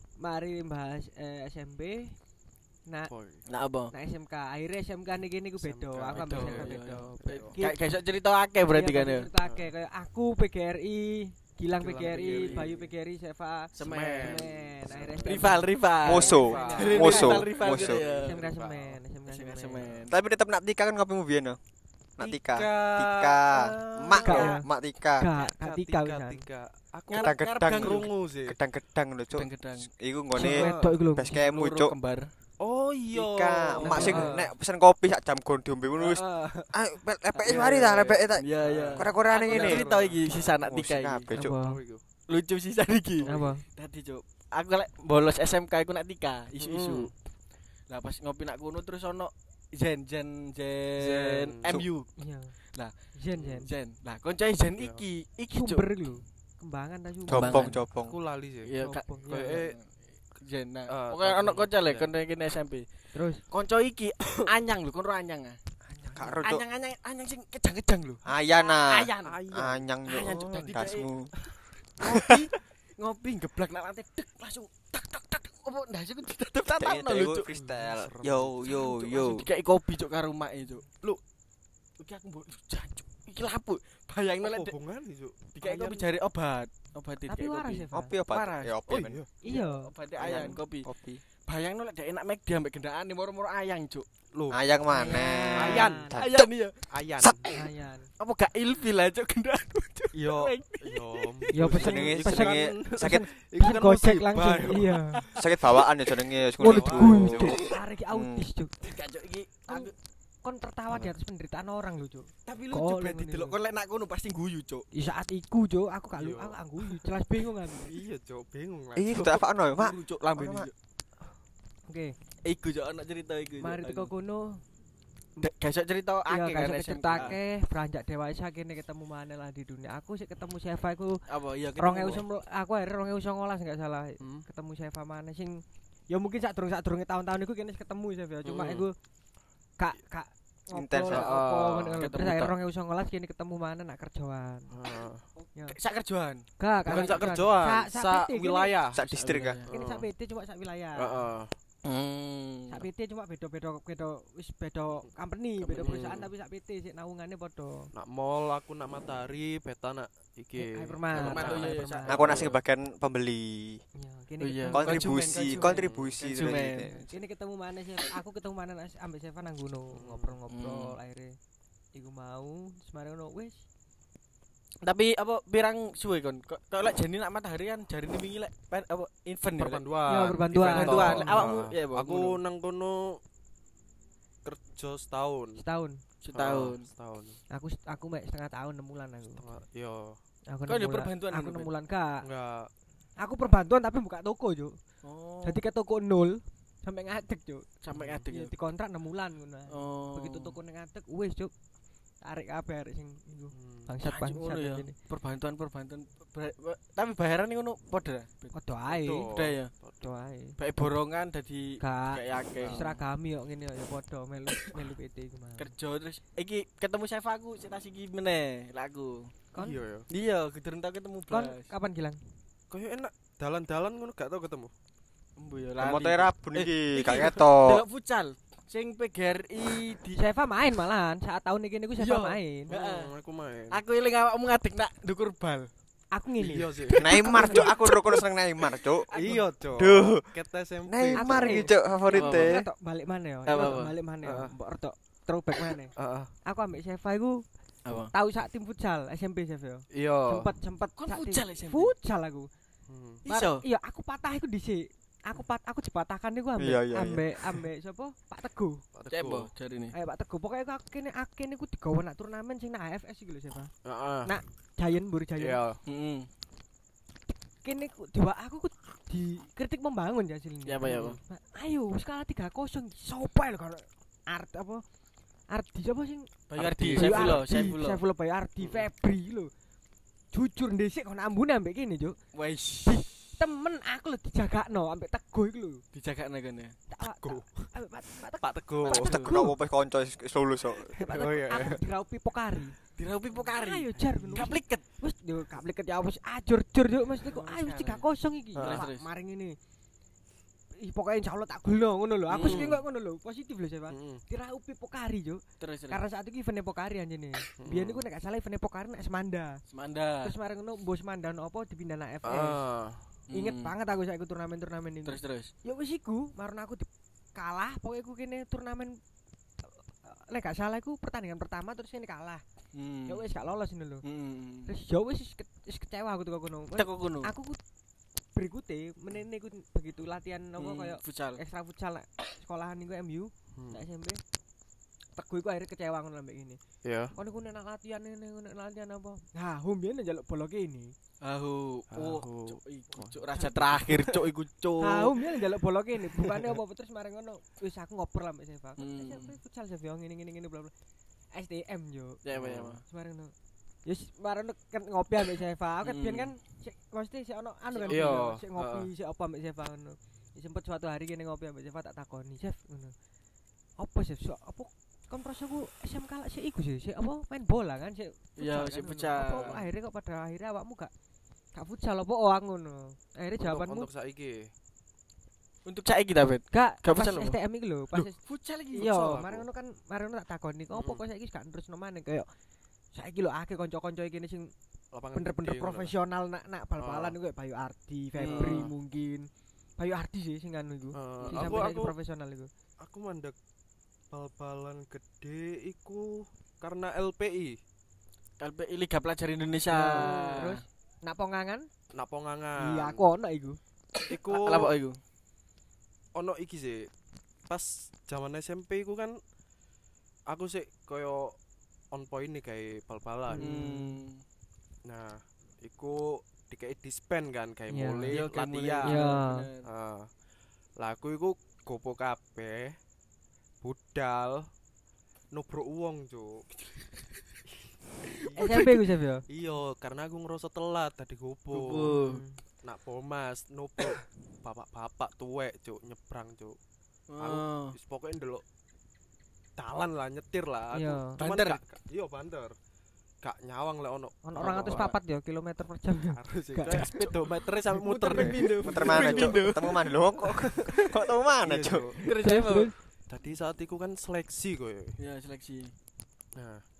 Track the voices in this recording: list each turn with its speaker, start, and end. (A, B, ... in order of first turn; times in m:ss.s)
0:00.2-0:02.2 A
0:03.1-0:03.4 B
0:03.5-0:03.9 C
0:03.9-0:07.8 A
0:05.6-0:07.6 B
0:06.1-0:09.3 C
0:08.7-0:20.0 A
0:09.4-0:09.7 B
0:11.8-0:12.8 B
0:11.8-0:12.8 C
0:13.7-0:14.5 C
0:13.8-0:19.0 B
0:15.2-0:18.4 C
0:16.0-0:18.0 D
0:19.3-0:20.1 C
0:20.1-0:21.6 D
0:22.2-0:25.3 D
0:22.2-0:23.4 B
0:23.5-0:24.6 C
0:24.0-0:24.5 B
0:24.2-0:26.4 A
0:25.3-0:28.6 B
0:27.1-0:28.1 C
0:27.2-0:31.9 D
0:29.3-0:29.9 C
0:30.3-0:31.4 A
0:30.4-0:30.9 B
0:31.3-0:32.3 C
0:32.6-0:34.4 B
0:33.1-0:39.9 D
0:33.8-0:34.5 C
0:33.8-0:34.4 A
0:35.9-0:36.7 C
0:37.3-0:41.3 C
0:38.6-0:40.6 B
0:40.6-0:41.6 D
0:41.3-0:41.8 A
0:41.6-0:42.0 B
0:42.3-0:47.1 C
0:43.2-0:43.4 B
0:43.2-0:43.6 A
0:46.6-0:47.1 B
0:47.9-0:52.1 C
0:51.0-0:51.9 B
0:52.2-0:52.5 A
0:52.6-0:56.1 C
0:53.1-0:53.7 A
0:54.8-0:55.0 B
0:55.5-0:57.8 A
0:57.3-0:58.2 D
0:57.3-0:57.8 C
0:57.4-0:59.8 B
0:58.6-1:02.8 C
0:58.8-0:59.6 A
1:00.9-1:02.1 B
1:03.1-1:03.4 A
1:03.5-1:05.6 C
1:05.9-1:06.4 A
1:06.2-1:06.6 D
1:06.2-1:09.4 C
1:08.2-1:11.3 D
1:09.2-1:09.9 B
1:10.0-1:11.1 C
1:12.0-1:17.5 C
1:12.0-1:12.5 D
1:16.7-1:19.5 D
1:17.5-1:18.6 B
1:18.8-1:20.9 C
1:22.0-1:24.7 C
1:24.4-1:25.4 B
1:25.5-1:28.8 C
1:25.6-1:26.0 A
1:27.2-1:28.1 A
1:27.9-1:29.2 D
1:28.9-1:29.3 B
1:29.4-1:30.3 A
1:29.4-1:30.9 C
1:30.2-1:31.2 D
1:30.2-1:30.5 B
1:31.4-1:34.0 C
1:34.3-1:34.6 B
1:34.5-1:36.5 D
1:34.9-1:36.2 A
1:35.6-1:36.2 B
1:36.2-1:36.9 C
1:36.9-1:37.5 B
1:37.2-1:37.5 D
1:37.5-1:38.1 A
1:38.2-1:41.5 C
1:40.1-1:45.2 B
1:41.5-1:45.2 A
1:41.6-1:43.2 D
1:45.2-1:45.6 C
1:45.4-1:48.5 D
1:46.6-1:47.6 B
1:46.6-1:48.7 A
1:47.4-1:47.8 C
1:48.8-1:49.9 C
1:50.4-1:53.6 A
1:52.4-1:54.9 C
1:54.9-1:57.9 A
1:56.2-1:56.6 B
1:57.9-1:59.2 B
1:58.9-2:00.7 D
1:59.1-2:00.7 C
2:01.9-2:02.2 A
2:02.4-2:04.1 C
2:03.6-2:04.6 A
2:05.4-2:07.4 C
2:06.3-2:11.2 A
2:07.1-2:07.4 B
2:11.3-2:12.2 C
2:11.8-2:19.0 A
2:14.2-2:14.4 B
2:18.4-2:18.8 C
2:19.8-2:24.7 A
2:20.7-2:21.4 D
2:21.1-2:22.4 B
2:24.7-2:25.2 B
2:25.4-2:27.4 C
2:26.6-2:28.8 A
2:26.9-2:29.0 B
2:28.9-2:29.6 D
2:29.1-2:29.7 C
2:29.7-2:30.1 B
2:29.7-2:31.3 A
2:31.0-2:31.5 B
2:31.8-2:32.8 C
2:32.7-2:37.9 A
2:35.6-2:36.0 C
2:35.8-2:36.3 B
2:37.9-2:42.6 B
2:40.5-2:42.5 A
2:41.1-2:42.5 C
2:42.0-2:43.8 D
2:44.0-2:45.9 A
2:44.4-2:47.2 C
2:44.7-2:46.9 D
2:45.7-2:46.2 B
2:46.8-2:51.4 A
2:49.9-2:50.4 B
2:50.5-2:51.0 C
2:51.9-2:53.6 A
2:54.8-2:59.8 C
2:59.6-3:03.2 B
3:00.0-3:01.6 A
3:00.5-3:02.4 C
3:04.4-3:05.6 B
3:05.6-3:06.0 A
3:06.2-3:06.9 C
3:06.3-3:07.4 B
3:07.5-3:09.4 A
3:09.4-3:10.2 B
3:10.5-3:12.2 A
3:10.7-3:11.7 C
3:12.2-3:12.7 B
3:13.2-3:14.8 A
3:15.0-3:15.6 C
3:15.4-3:17.7 A
3:17.8-3:18.5 C
3:17.9-3:18.3 B
3:18.3-3:21.5 A
3:19.7-3:20.6 C
3:22.2-3:24.9 A
3:23.5-3:23.9 B
3:24.0-3:28.5 C
3:28.5-3:29.3 A
3:28.9-3:30.0 B
3:29.3-3:29.7 C
3:30.0-3:30.6 A
3:30.6-3:32.8 C
3:31.8-3:35.7 A
3:32.6-3:33.0 B
3:35.6-3:39.3 C
3:39.5-3:39.8 A
3:39.6-3:40.1 B
3:40.1-3:41.7 C
3:41.3-3:42.2 A
3:42.7-3:44.7 B
3:45.4-3:50.2 C
3:45.8-3:47.8 D
3:50.1-3:52.7 A
3:52.0-3:53.1 C
3:52.7-3:53.8 B
3:53.7-3:55.7 C
3:56.1-3:57.7 A
3:56.4-3:57.6 B
3:56.9-3:59.1 D
3:59.1-4:02.3 B
3:59.1-3:59.4 C
3:59.8-4:00.3 D
4:00.8-4:02.6 D
4:01.2-4:05.9 A
4:02.1-4:02.5 C
4:03.4-4:03.9 C
4:04.2-4:04.5 B
4:05.9-4:06.3 B
4:06.4-4:07.4 A
4:07.8-4:08.1 C
4:08.1-4:12.5 A
4:09.9-4:10.5 B
4:11.0-4:11.9 C
4:12.9-4:13.2 B
4:13.2-4:18.8 A
4:13.2-4:13.6 C
4:16.6-4:17.5 D
4:18.9-4:19.5 B
4:19.1-4:19.9 C
4:19.9-4:23.7 A
4:23.8-4:24.3 B
4:24.2-4:25.6 A
4:25.4-4:25.8 B
4:25.8-4:26.3 C
4:27.6-4:34.8 A
4:30.6-4:31.2 C
4:30.8-4:31.2 B
4:35.5-4:36.3 A
4:36.5-4:38.0 C
4:36.5-4:37.5 B
4:36.9-4:39.5 A
4:38.6-4:38.9 B
4:40.3-4:42.2 A
4:42.3-4:43.3 C
4:42.8-4:45.8 A
4:45.9-4:46.7 C
4:46.9-4:49.5 A
4:47.2-4:47.7 B
4:48.4-4:49.2 B
4:48.8-4:49.3 C
4:49.0-4:51.0 D
4:50.9-4:52.8 A
4:51.0-4:51.8 B
4:53.0-4:54.8 C
4:53.5-4:59.6 A
4:57.2-4:58.0 C
4:58.6-4:58.8 B
4:58.6-4:59.1 C
5:00.8-5:09.6 A
5:02.3-5:02.8 C
5:02.4-5:02.8 B
5:03.9-5:04.2 B
5:05.6-5:06.0 C
5:07.6-5:08.0 B
5:09.7-5:10.3 C
5:10.2-5:12.6 A
5:12.2-5:13.0 B
5:13.3-5:13.7 C
5:13.3-5:19.0 A
5:15.0-5:15.5 C
5:19.6-5:22.4 A
5:22.7-5:23.3 C
5:23.1-5:24.0 A
5:24.0-5:24.7 C
5:24.6-5:27.6 A
5:26.8-5:27.3 C
5:28.3-5:34.2 A
5:30.6-5:31.4 C
5:33.5-5:33.8 B
5:35.2-5:36.6 A
5:36.8-5:37.1 B
5:37.1-5:40.9 A
5:41.2-5:45.2 C
5:41.9-5:43.2 B
5:43.3-5:44.0 A
5:44.8-5:50.7 A
5:46.1-5:46.6 C
5:48.8-5:49.4 C
5:51.3-5:52.2 A
5:52.2-5:52.8 C
5:52.3-5:52.8 B
5:52.8-5:53.3 A
5:53.8-6:02.9 A
5:55.8-5:56.4 C
5:57.7-5:58.2 C
5:57.9-5:58.9 B
6:03.8-6:10.9 A
6:08.4-6:09.6 C
6:09.2-6:09.6 B
6:11.5-6:13.9 A
6:13.4-6:14.5 B
6:15.6-6:17.4 C
6:16.5-6:18.2 A
6:17.9-6:19.0 C
6:18.7-6:22.3 A
6:18.9-6:19.4 B
6:20.7-6:21.0 B
6:22.9-6:24.5 A
6:24.9-6:25.9 B
6:25.1-6:32.5 A
6:26.8-6:27.2 B
6:28.2-6:28.7 C
6:28.2-6:28.7 B
6:30.9-6:31.9 B
6:31.2-6:31.6 C
6:32.8-6:33.3 B
6:34.1-6:37.6 B
6:38.4-6:40.5 C
6:39.7-6:41.7 A
6:39.9-6:40.4 B
6:41.9-6:43.0 B
6:42.6-6:43.6 A
6:44.0-6:45.0 C
6:44.0-6:44.7 B
6:46.1-6:46.9 B
6:47.5-6:49.2 B
6:50.3-6:51.4 B
6:51.9-6:53.6 B
6:53.3-6:54.0 A
6:53.4-6:54.2 C
6:54.8-6:59.0 B
6:57.7-6:58.2 A
6:58.1-6:59.7 C
6:58.8-6:59.5 A
6:59.6-7:00.1 B
7:00.8-7:02.8 B
7:03.6-7:04.5 B
7:05.3-7:06.5 B
7:08.2-7:08.7 B
7:08.3-7:08.8 C
7:08.4-7:09.2 A
7:09.3-7:12.0 B
7:11.5-7:12.2 C
7:11.8-7:12.4 A
7:12.6-7:16.6 B
7:17.1-7:17.8 C
7:17.2-7:18.4 B
7:19.6-7:22.6 B
7:20.7-7:21.2 A
7:21.1-7:21.6 C
7:23.2-7:24.9 B
7:24.2-7:26.9 A
7:24.4-7:25.0 C
7:26.1-7:29.4 B
7:26.6-7:31.0 C
7:28.6-7:31.9 D
7:31.4-7:32.0 B
7:32.0-7:32.7 C
7:32.1-7:32.7 A
7:33.1-7:35.0 B
7:35.0-7:35.7 C
7:36.3-7:36.6 B